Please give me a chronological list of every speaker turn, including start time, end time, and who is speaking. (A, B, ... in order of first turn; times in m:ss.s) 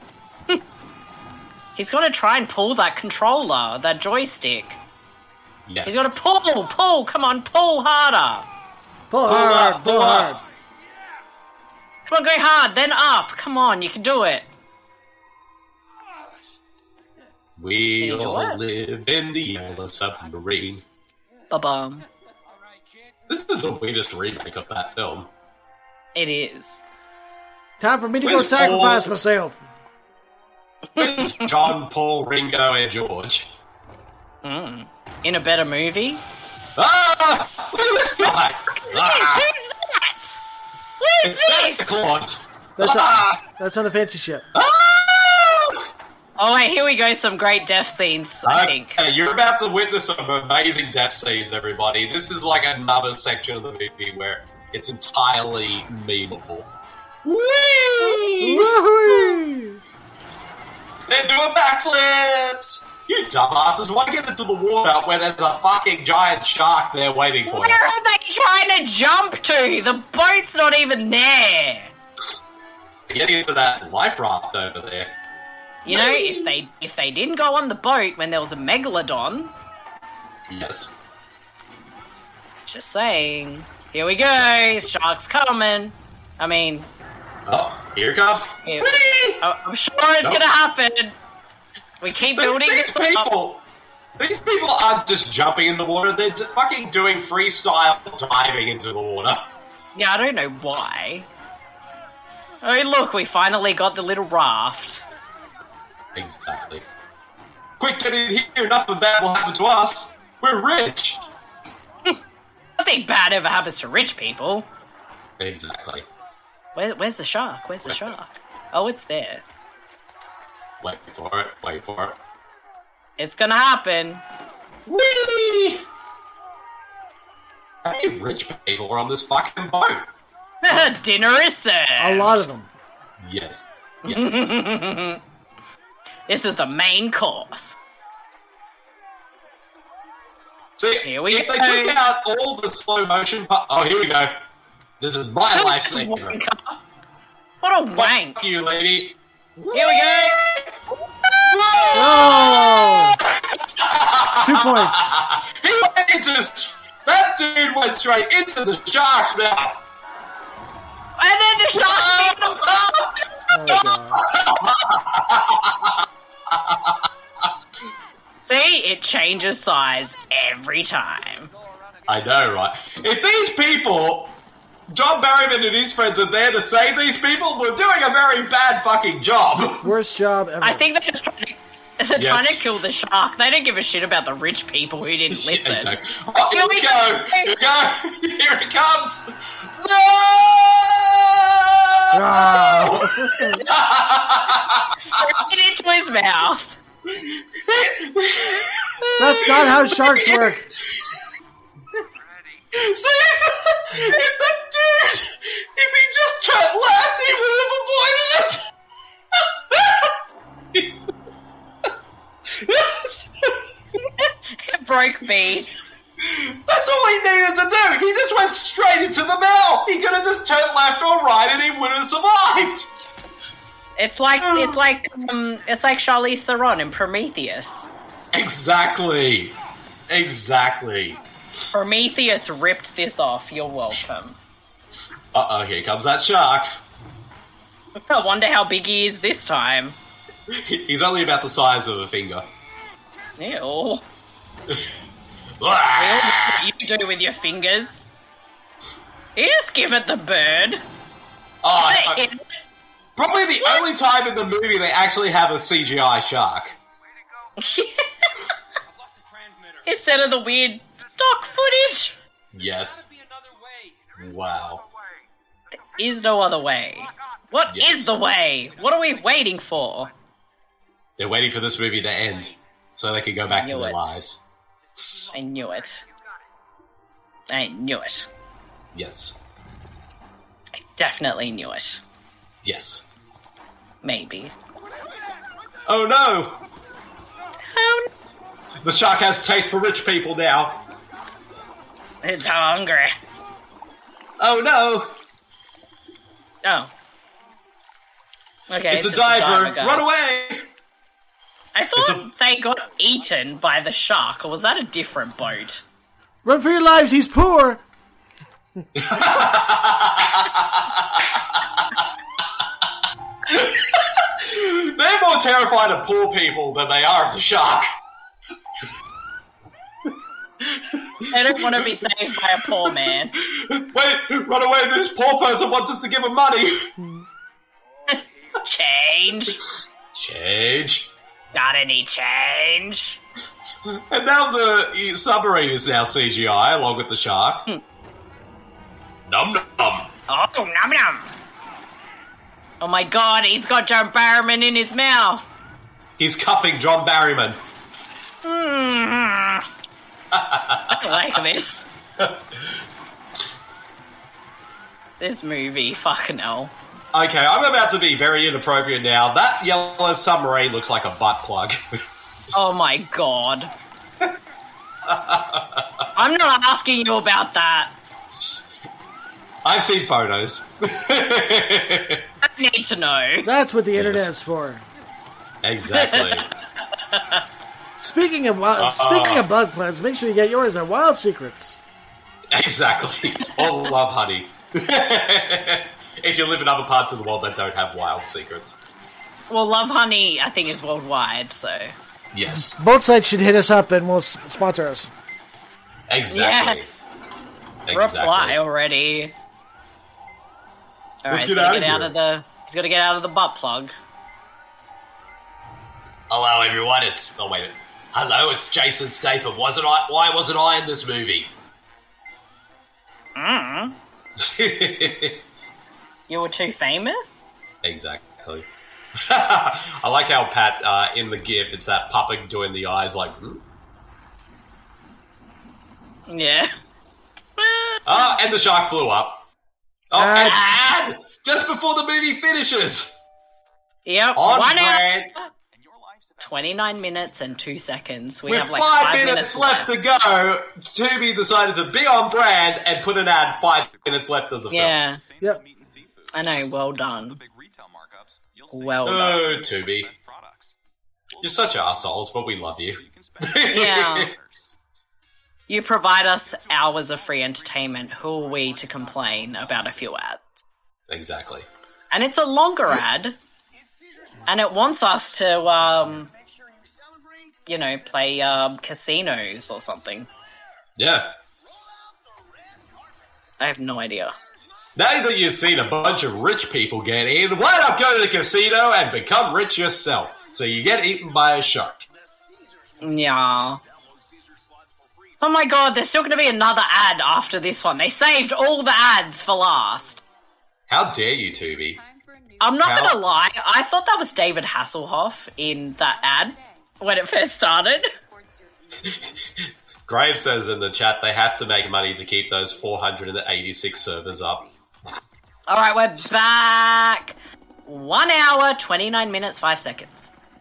0:01.7-0:04.8 A
0:05.7-0:06.1 B
0:05.8-0:08.5 A
0:09.1-0:10.4 C
0:09.2-0:10.4 B
0:12.1-0:14.4 A
0:17.6-0:20.8 B
0:18.0-0:18.6 A
0:21.5-0:22.0 A
0:22.4-0:23.1 D
0:23.3-0:25.3 B
0:26.1-0:26.8 A
0:27.8-0:29.6 C
0:28.2-0:29.1 B
0:31.0-0:31.5 A
0:31.0-0:33.5 B
0:34.4-0:36.2 A
0:36.8-0:39.5 B
0:38.8-0:40.4 A
0:41.0-0:41.9 A
0:41.2-0:43.4 B
0:42.8-0:44.4 C
0:44.5-0:45.9 B
0:46.4-0:49.0 A
0:48.4-0:56.7 B
0:57.2-0:59.4 B
0:58.0-0:58.3 A
0:58.4-0:59.8 C
1:01.1-1:07.8 B
1:07.4-1:11.9 A
1:13.1-1:15.1 B
1:15.8-1:19.5 A
1:15.8-1:16.5 B
1:20.5-1:20.9 B
1:22.7-1:26.9 A
1:27.5-1:29.4 B
1:28.6-1:31.2 A
1:32.0-1:33.3 A
1:32.3-1:33.6 B
1:34.2-1:39.5 B
1:39.9-1:41.3 A
1:42.6-1:45.0 A
1:46.1-1:46.8 B
1:47.8-1:51.2 B
1:52.8-1:54.7 A
1:55.4-1:56.0 B
1:56.7-1:59.4 A
1:57.8-1:58.1 B
2:00.8-2:02.2 B
2:03.2-2:04.2 A
2:04.8-2:05.8 B
2:07.8-2:10.1 B
2:10.6-2:12.4 A
2:12.0-2:12.7 C
2:13.2-2:14.5 B
2:14.0-2:15.2 A
2:16.3-2:17.8 A
2:20.8-2:24.4 B
2:21.0-2:22.0 A
2:25.0-2:26.4 B
2:25.5-2:26.8 A
2:27.6-2:28.4 A
2:28.0-2:30.6 B
2:29.7-2:30.6 A
2:31.4-2:39.8 B
2:31.9-2:33.2 C
2:34.4-2:35.2 C
2:41.2-2:43.1 A
2:41.7-2:43.2 B
2:43.5-2:44.2 C
2:43.7-2:47.0 B
2:48.4-2:51.5 A
2:51.5-2:52.3 D
2:52.1-2:54.4 B
2:54.9-2:59.9 B
2:59.8-3:00.9 C
3:00.6-3:05.9 A
3:02.2-3:02.6 B
3:05.3-3:15.3 B
3:06.5-3:07.5 A
3:12.1-3:13.6 C
3:14.9-3:16.7 A
3:17.0-3:20.6 B
3:19.1-3:19.4 A
3:19.2-3:20.7 C
3:22.1-3:22.7 D
3:22.7-3:28.6 B
3:29.4-3:30.1 B
3:32.6-3:33.6 B
3:34.0-3:35.7 A
3:36.2-3:42.9 B
3:44.0-3:47.8 A
3:44.4-3:44.8 B
3:48.3-3:49.5 B
3:50.1-3:51.2 B
3:51.7-3:54.4 A
3:55.3-3:56.8 B
3:58.1-4:00.0 A
4:00.5-4:02.5 B
4:03.4-4:04.0 A
4:05.6-4:06.6 B
4:05.9-4:08.0 A
4:09.4-4:10.8 A
4:11.6-4:12.2 B
4:11.8-4:12.4 A
4:13.2-4:16.8 B
4:13.6-4:13.9 A
4:17.6-4:18.3 A
4:18.8-4:20.0 D
4:19.8-4:22.1 A
4:22.5-4:23.0 B
4:22.6-4:24.6 D
4:24.2-4:24.8 B
4:25.8-4:30.1 A
4:27.7-4:28.1 B
4:31.2-4:34.4 B
4:33.5-4:34.1 A
4:35.0-4:35.3 B
4:35.3-4:36.0 A
4:37.5-4:38.3 A
4:38.9-4:39.3 B
4:41.0-4:42.0 A
4:42.6-4:43.0 B
4:44.0-4:44.5 A
4:45.8-4:46.6 B
4:47.7-4:48.1 A
4:48.8-4:50.8 B
4:52.2-4:53.2 A
4:54.4-4:55.2 B
4:56.6-4:56.9 A
4:58.7-5:00.0 A
4:58.9-5:00.7 B
5:01.7-5:05.8 A
5:02.0-5:02.3 B
5:06.4-5:07.8 C
5:09.0-5:11.6 B
5:13.5-5:17.9 B
5:20.6-5:22.0 B
5:21.3-5:23.3 A
5:22.6-5:26.9 B
5:27.0-5:27.2 C
5:28.0-5:28.5 D
5:28.1-5:29.6 A
5:30.1-5:31.1 B
5:31.5-5:33.2 A
5:33.8-5:37.7 B
5:39.2-5:40.1 B
5:40.3-5:41.3 A
5:42.8-5:45.5 A
5:46.2-5:47.6 B
5:48.4-5:49.7 A
5:50.3-5:51.2 B
5:50.9-5:51.8 A
5:52.2-5:52.7 B
5:55.2-5:56.7 A
5:57.1-6:01.8 B
6:02.5-6:03.7 A
6:05.0-6:05.9 B
6:06.2-6:07.9 A
6:08.3-6:08.6 B
6:09.6-6:12.3 B
6:12.4-6:13.5 A
6:13.4-6:14.8 C
6:13.9-6:14.3 B
6:15.6-6:16.5 B
6:15.9-6:16.5 A
6:17.0-6:17.4 A
6:18.0-6:21.8 C
6:18.8-6:19.4 B
6:22.5-6:28.8 B
6:29.5-6:31.9 A
6:32.3-6:32.8 B
6:32.6-6:35.1 C
6:36.1-6:36.9 B
6:36.3-6:37.0 A
6:37.8-6:38.6 B
6:37.9-6:39.3 A
6:41.2-6:43.9 A
6:41.3-6:42.1 B
6:46.3-6:51.5 B
6:53.4-6:54.0 A
6:54.4-6:55.4 B
6:56.3-6:57.4 A
6:57.8-7:03.6 B
7:06.3-7:06.7 A
7:07.6-7:08.2 A
7:08.0-7:09.5 B
7:10.1-7:13.1 B
7:10.1-7:10.6 C
7:10.4-7:10.8 A
7:14.0-7:15.1 A
7:14.4-7:15.3 B
7:15.8-7:16.6 D
7:16.4-7:19.9 A
7:18.5-7:25.0 B
7:23.9-7:24.2 D
7:24.7-7:25.2 A
7:25.2-7:30.7 D
7:26.3-7:27.4 A
7:28.7-7:29.6 A
7:29.0-7:30.1 B
7:31.3-7:31.7 D
7:31.4-7:34.3 B
7:33.0-7:34.6 D
7:33.6-7:34.3 A
7:35.7-7:40.4 A
7:36.6-7:40.1 D
7:41.1-7:41.6 B
7:42.1-7:43.4 A
7:44.4-7:46.3 A
7:45.8-7:46.9 D
7:47.7-7:50.3 A
7:51.0-7:51.3 B
7:53.6-7:54.3 A
7:55.0-8:02.0 B
8:02.9-8:03.4 D
8:03.0-8:03.8 A
8:05.4-8:10.2 A
8:10.9-8:12.0 B
8:11.8-8:13.2 E
8:12.6-8:18.1 A
8:12.8-8:13.2 B
8:16.0-8:19.5 E
8:20.1-8:24.6 B
8:23.7-8:24.8 E
8:25.7-8:27.3 A
8:27.8-8:30.3 A